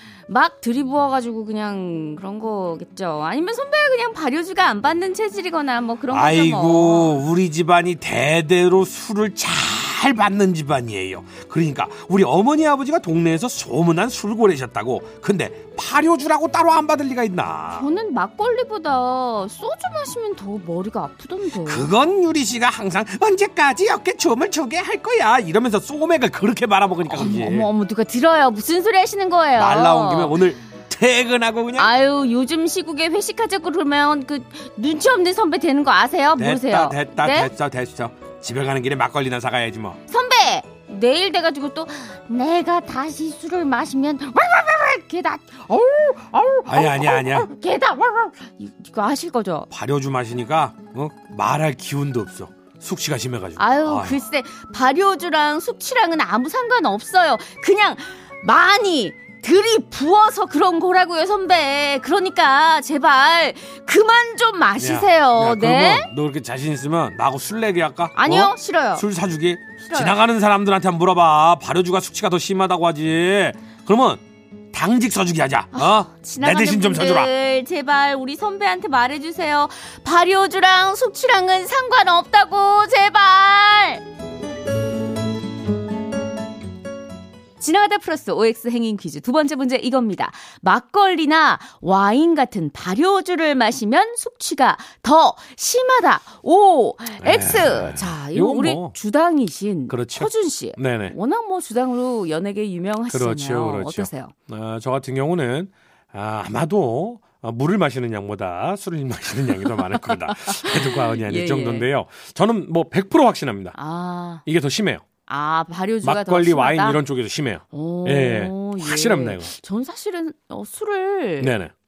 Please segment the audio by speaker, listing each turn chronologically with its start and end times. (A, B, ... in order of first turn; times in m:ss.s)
0:00.3-0:07.2 A
0:06.1-0:17.9 B
0:17.7-0:21.9 A
0:21.7-0:27.7 B
0:27.1-0:30.4 A
0:29.6-0:31.9 B
0:31.8-0:37.5 A
0:36.4-0:40.0 B
0:40.1-0:49.7 A
0:46.7-0:47.5 B
0:49.7-0:54.2 B
0:53.6-1:06.1 A
1:04.8-1:14.2 B
1:08.2-1:09.0 A
1:09.9-1:10.2 A
1:14.7-1:17.3 B
1:15.7-1:24.0 A
1:27.6-1:44.3 A
1:37.2-1:39.0 B
1:39.9-1:41.1 B
1:43.1-1:53.8 B
1:50.5-1:51.9 A
1:53.8-1:54.4 A
1:54.4-1:55.0 B
1:55.3-1:57.0 A
1:56.0-1:59.5 B
1:57.7-2:01.5 A
2:01.4-2:01.7 B